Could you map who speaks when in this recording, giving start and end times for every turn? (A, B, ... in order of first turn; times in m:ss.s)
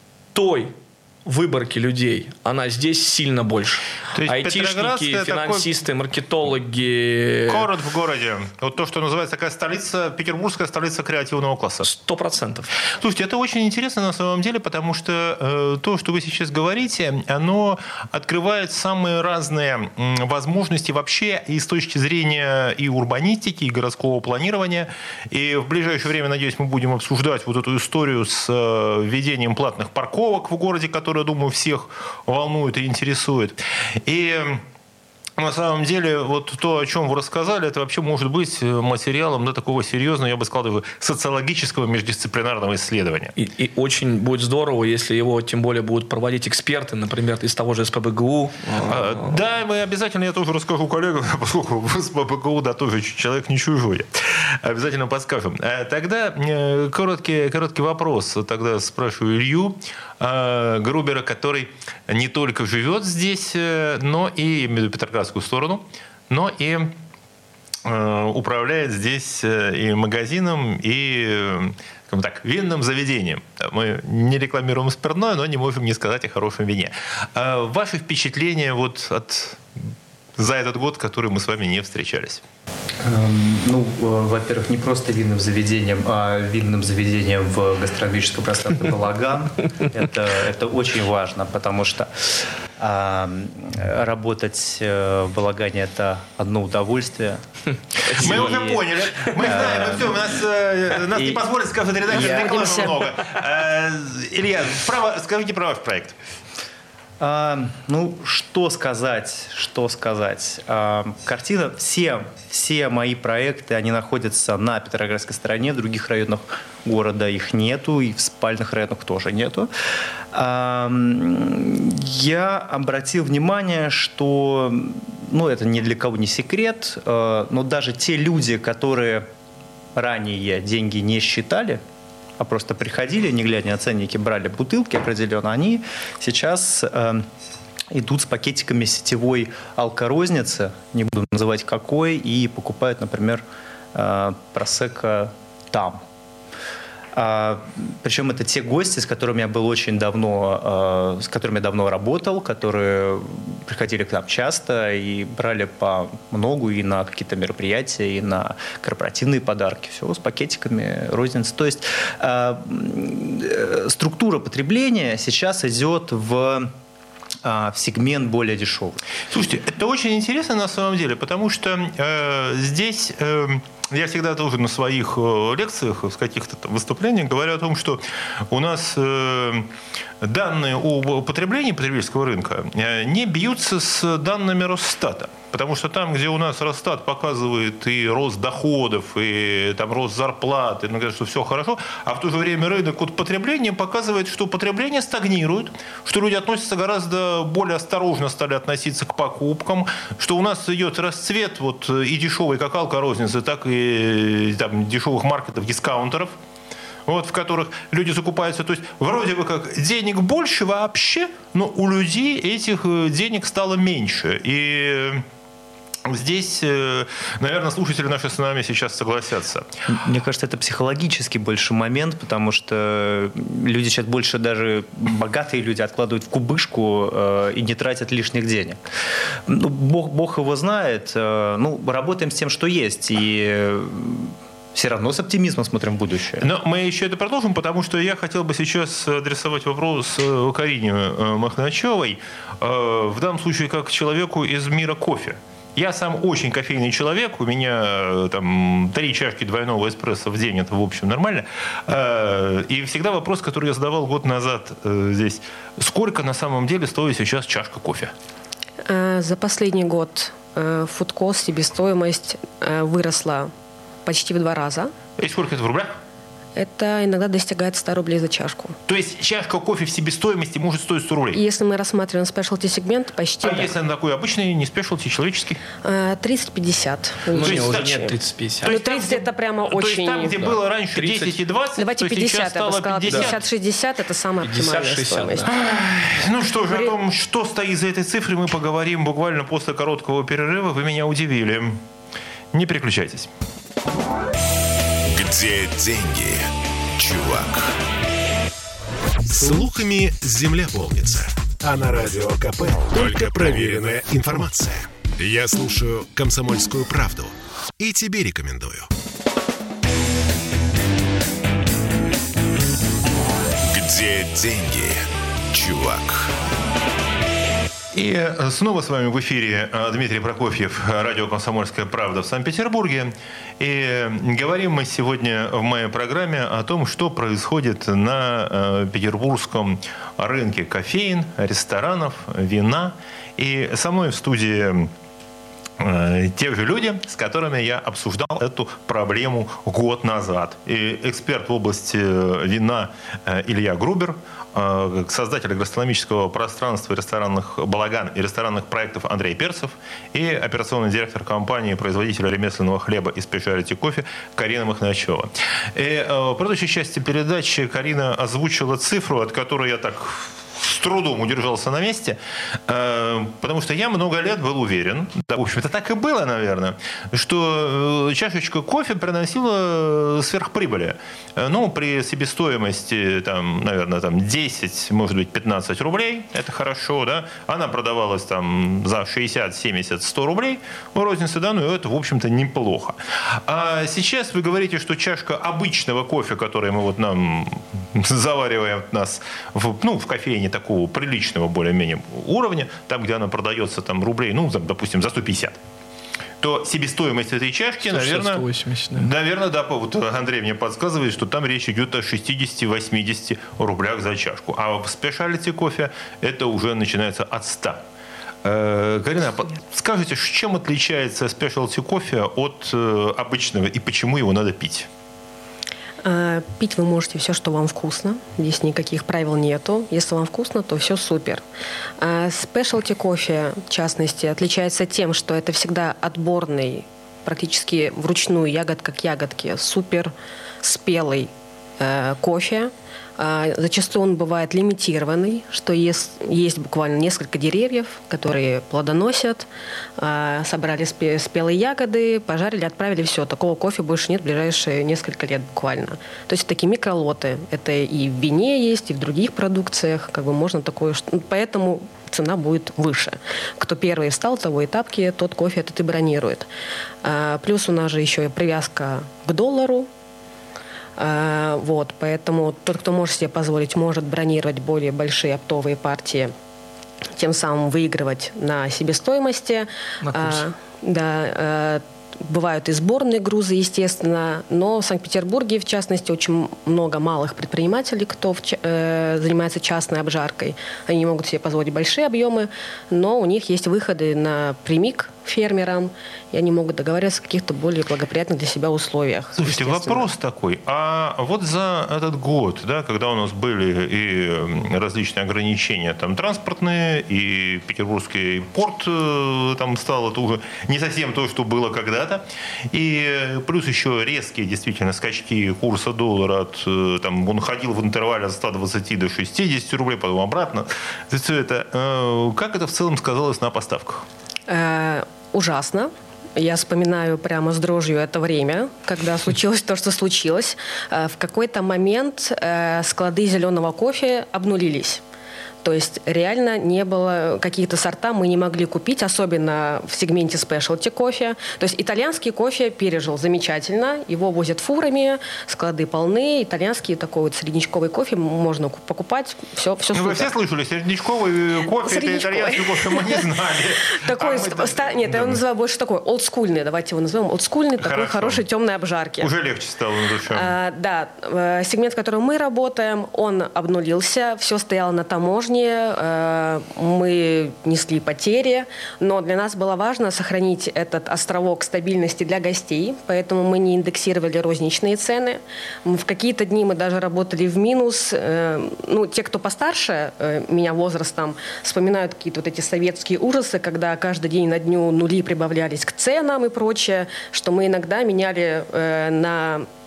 0:00.3-0:07.7 A
0:04.1-0:05.7 B
0:07.5-0:11.9 B
0:11.8-0:12.7 A
0:13.0-0:34.6 B
0:35.4-0:43.3 B
0:43.4-0:49.4 A
0:48.8-1:06.9 B
1:07.8-1:19.8 B
1:20.4-1:22.4 B
1:23.0-1:37.4 C
1:38.0-1:40.2 C
1:38.1-1:46.1 B
1:42.1-1:42.9 C
1:47.2-1:59.7 C
2:00.3-2:09.3 C
2:10.0-2:11.8 C
2:12.4-2:17.3 C
2:17.9-2:26.0 C
2:27.2-2:46.7 C
2:47.4-2:49.0 C
2:49.3-2:59.7 B
3:00.2-3:26.4 B
3:27.1-3:35.2 B
3:36.1-3:39.7 B
3:39.9-3:48.8 C
3:49.5-3:56.5 C
3:56.4-4:18.1 B
4:18.9-4:23.5 D
4:24.0-4:24.9 D
4:25.2-4:26.0 B
4:26.6-4:28.8 D
4:28.9-4:31.4 B
4:31.3-4:33.7 D
4:33.4-4:35.6 B
4:35.8-4:38.1 D
4:37.3-4:38.7 A
4:37.4-4:43.4 B
4:38.6-4:40.5 D
4:41.0-4:41.4 A
4:41.8-4:45.5 D
4:44.4-4:45.5 A
4:45.5-4:51.8 B
4:52.5-4:53.3 B
4:55.1-4:57.8 E
4:59.3-5:08.9 E
5:13.7-5:16.3 E
5:17.9-5:34.9 B
5:35.8-6:35.6 B
6:36.4-6:47.8 B
6:37.9-6:39.1 A
6:48.4-6:54.9 B
6:56.0-7:01.4 D
7:02.0-7:19.5 D
7:20.0-7:36.5 D
7:37.0-7:39.9 D
7:41.0-7:46.3 D
7:47.2-8:10.1 D
7:50.0-7:50.4 A
8:09.4-8:34.1 B
8:34.5-8:45.0 D
8:45.6-9:00.3 D
8:59.9-9:05.4 B
9:01.8-9:03.3 D
9:03.9-9:09.3 D
9:07.8-9:08.4 B
9:09.2-9:10.5 B
9:10.3-9:39.7 D